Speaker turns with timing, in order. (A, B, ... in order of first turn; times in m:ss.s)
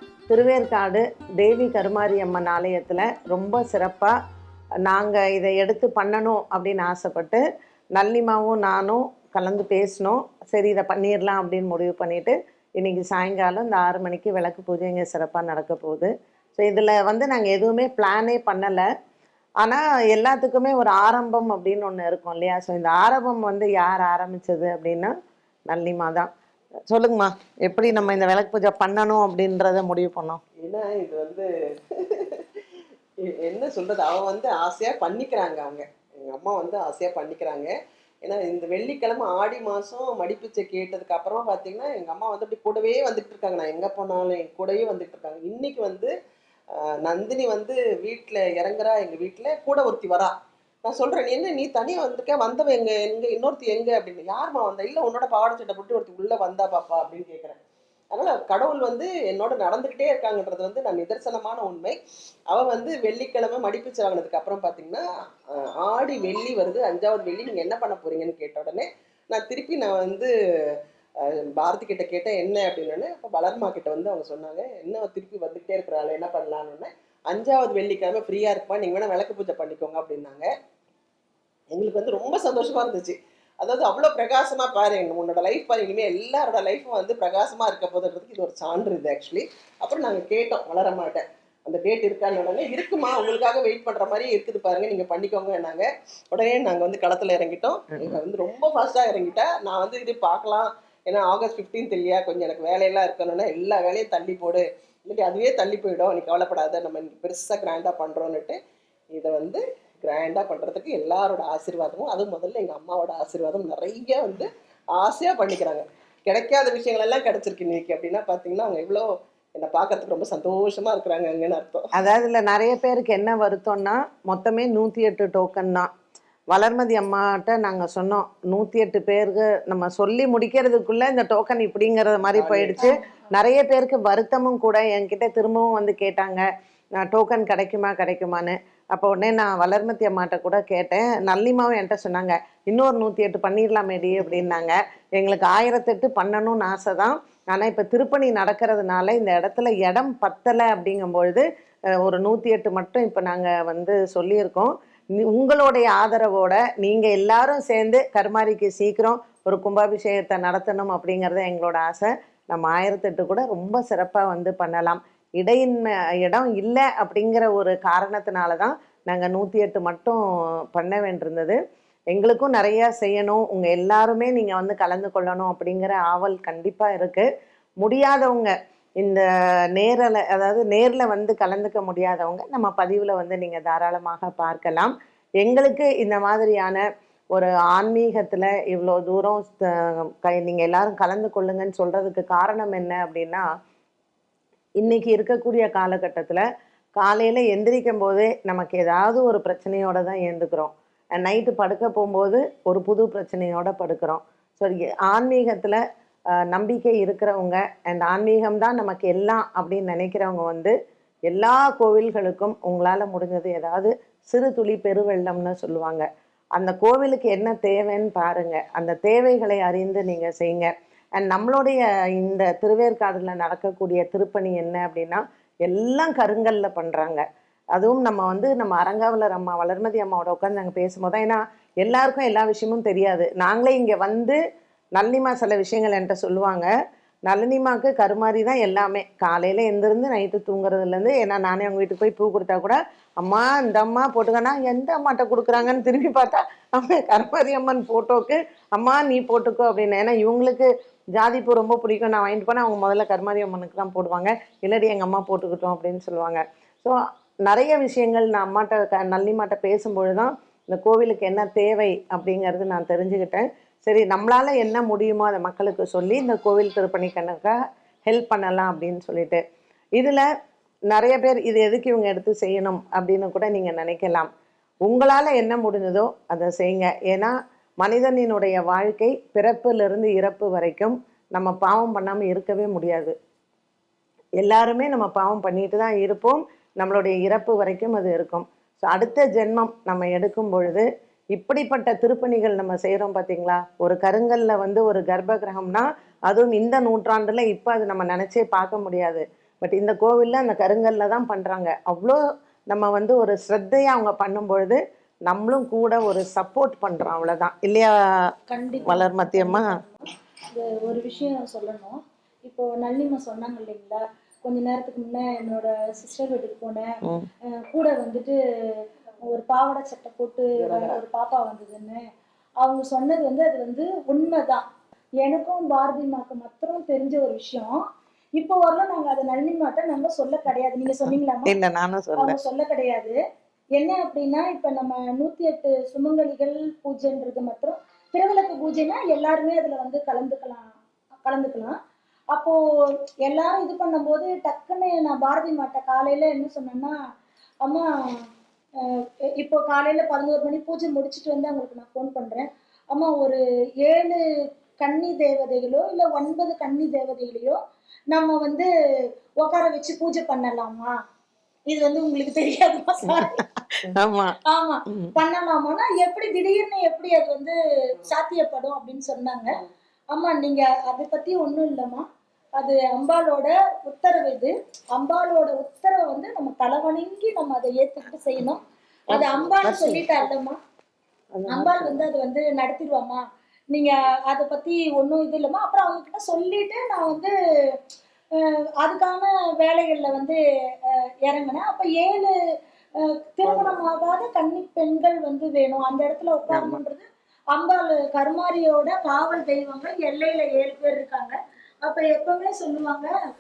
0:00.3-0:04.1 A
0:04.9-0:07.4 A
0:08.0-0:18.8 A
0:19.6-0:25.1 A
0:25.7-0:26.3 A
0:26.9-0:30.4 A
0:30.6-0:32.6 B
0:33.3-0:46.1 B
0:46.8-0:57.6 B
0:58.1-1:02.0 B
1:02.5-1:10.3 B
1:11.2-1:20.5 B
1:21.7-1:48.6 B
1:49.1-2:01.8 B
2:01.9-2:05.9 A
2:06.5-2:16.4 A
2:12.3-2:12.9 B
2:17.0-2:31.4 A
2:32.0-2:50.2 A
2:50.7-2:51.6 A
2:52.1-2:57.3 A
2:57.8-2:59.2 A
2:59.8-3:13.5 A
3:14.8-3:16.4 A
3:17.0-3:25.8 A
3:26.5-3:30.7 A
3:31.3-3:47.2 A
3:47.7-3:54.4 A
3:55.0-3:56.7 A
3:57.3-4:17.0 A
4:17.5-4:27.6 A
4:28.1-4:29.4 A
4:30.0-4:30.2 A
4:30.9-4:34.3 A
4:34.8-4:43.1 A
4:44.4-5:02.2 A
5:02.7-5:07.9 A
5:08.5-5:16.9 C
5:08.8-5:09.7 A
5:17.6-5:18.4 C
5:19.2-5:22.0 C
5:20.6-5:21.0 B
5:22.6-5:24.7 C
5:25.2-5:27.8 C
5:28.4-5:31.5 C
5:31.1-5:32.4 A
5:32.2-5:33.2 C
5:33.8-5:41.8 C
5:43.2-5:47.0 C
5:47.6-5:48.2 C
5:48.8-5:54.2 C
5:54.8-5:57.6 C
5:58.1-5:58.7 C
5:59.4-6:00.9 C
6:01.7-6:03.4 C
6:03.8-6:04.4 A
6:04.5-6:09.6 C
6:10.1-6:12.0 C
6:12.6-6:20.6 C
6:19.1-6:20.3 A
6:21.3-6:22.1 A
6:21.5-6:27.7 C
6:28.4-6:32.3 C
6:33.0-6:43.1 C
6:36.5-6:36.8 A